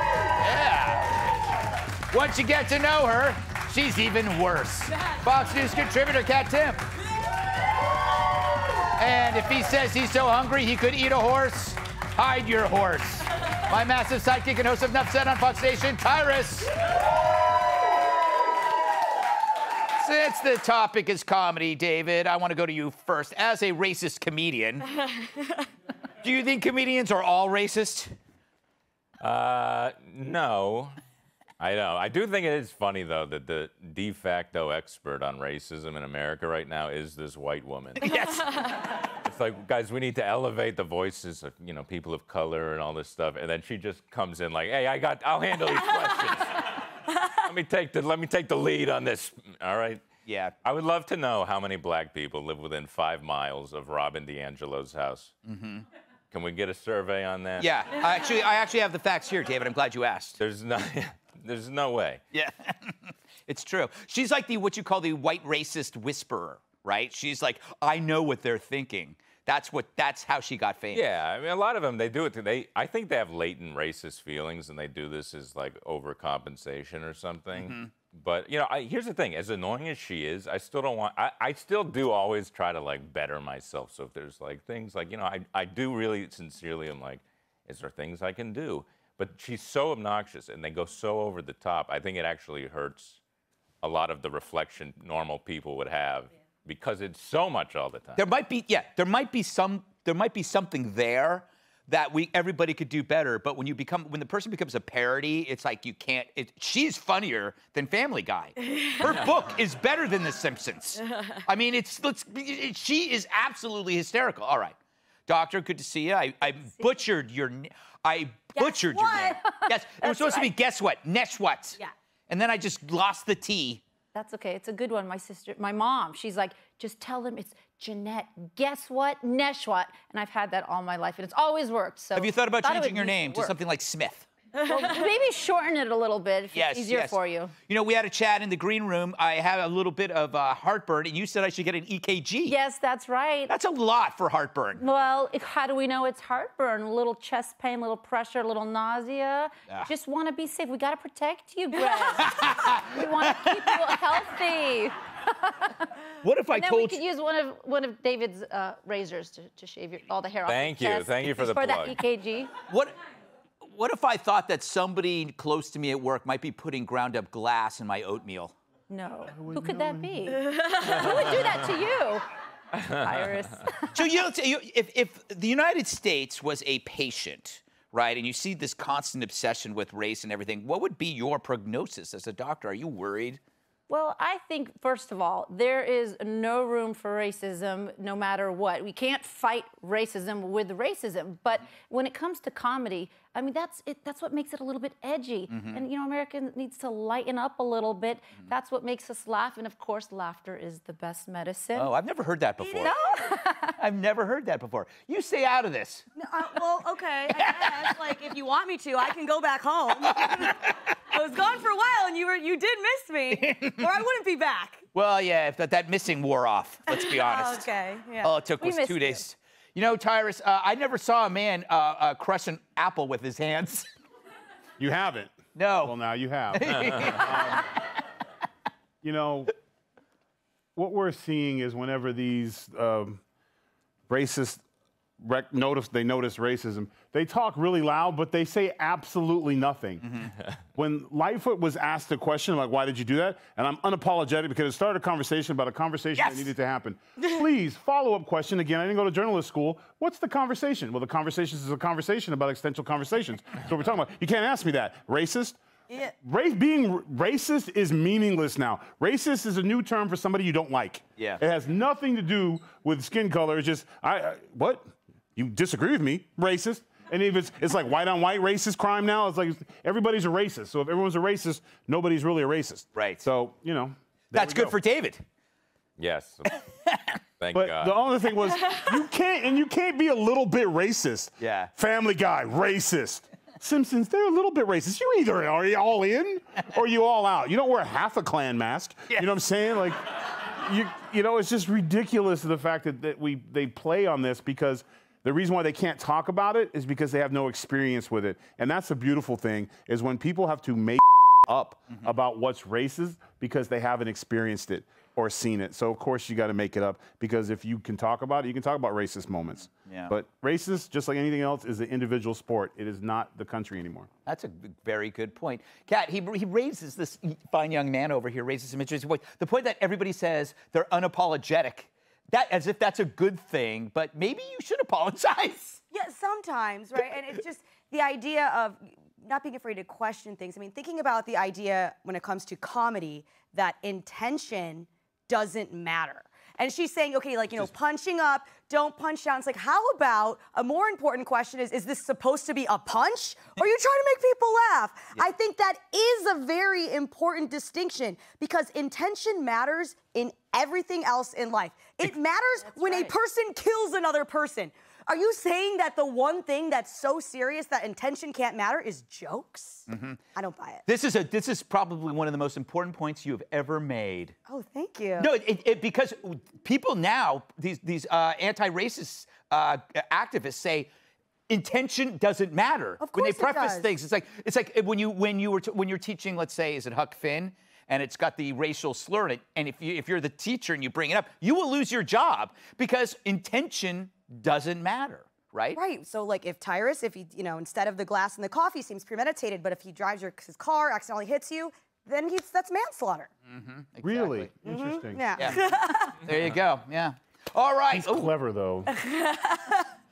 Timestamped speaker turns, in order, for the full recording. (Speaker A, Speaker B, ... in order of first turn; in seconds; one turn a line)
Speaker A: 0.4-1.1
Speaker A: 2.1-6.8
Speaker A: 9.0-16.7
Speaker A: 20.0-24.9
Speaker A: 26.2-28.1
Speaker B: 29.2-30.9
Speaker B: 31.6-38.1
Speaker A: 38.0-38.4
Speaker B: 38.6-46.5
Speaker B: 47.4-50.1
Speaker A: 50.2-50.5
Speaker B: 50.6-55.3
Speaker A: 55.5-55.8
Speaker B: 56.3-57.8
Speaker A: 57.6-60.4
Speaker B: 60.4-62.2
Speaker A: 62.3-71.0
Speaker B: 70.9-93.2
Speaker A: 77.5-77.9
Speaker B: 93.8-98.3
Speaker A: 98.2-114.8
Speaker A: 115.3-121.8
Speaker C: 116.5-116.9
Speaker D: 118.6-119.4
Speaker C: 120.0-120.5
Speaker A: 122.3-123.8
Speaker C: 124.1-133.6
Speaker A: 132.2-134.3
Speaker C: 134.6-137.5
Speaker A: 136.5-142.6
Speaker C: 142.5-143.5
Speaker A: 143.5-144.8
Speaker C: 144.8-155.8
Speaker A: 152.2-152.8
Speaker A: 156.2-157.0
Speaker C: 156.5-162.5
Speaker B: 160.5-162.0
Speaker A: 163.6-168.5
Speaker C: 168.9-172.3
Speaker E: 169.3-170.4
Speaker C: 173.0-173.9
Speaker A: 173.9-183.4
Speaker C: 183.9-201.9
Speaker A: 195.5-195.8
Speaker A: 201.8-202.9
Speaker D: 202.6-203.3
Speaker C: 202.8-203.7
Speaker A: 203.8-206.1
Speaker D: 206.2-214.8
Speaker A: 207.4-207.7
Speaker A: 213.3-213.8
Speaker A: 214.9-217.7
Speaker D: 216.9-218.4
Speaker A: 218.2-223.9
Speaker C: 218.6-219.2
Speaker E: 224.8-227.7
Speaker A: 225.6-226.0
Speaker A: 226.5-227.3
Speaker E: 229.0-229.5
Speaker E: 230.8-233.2
Speaker E: 234.1-234.6
Speaker E: 235.2-240.1
Speaker E: 240.8-255.6
Speaker A: 246.2-246.5
Speaker E: 256.2-274.8
Speaker A: 272.9-273.3
Speaker A: 274.3-275.2
Speaker B: 276.0-276.5
Speaker B: 277.4-278.0
Speaker E: 277.5-314.1
Speaker A: 281.4-281.7
Speaker A: 309.9-310.1
Speaker A: 314.3-325.8
Speaker D: 325.9-360.8
Speaker C: 352.6-353.1
Speaker A: 359.9-360.2
Speaker A: 360.9-364.4
Speaker D: 364.5-365.3
Speaker A: 365.2-370.9
Speaker A: 371.5-385.8
Speaker D: 373.0-373.9
Speaker D: 385.7-393.3
Speaker A: 393.5-394.5
Speaker E: 394.0-395.6
Speaker D: 394.6-396.1
Speaker A: 396.2-398.3
Speaker E: 397.9-398.9
Speaker D: 398.9-399.8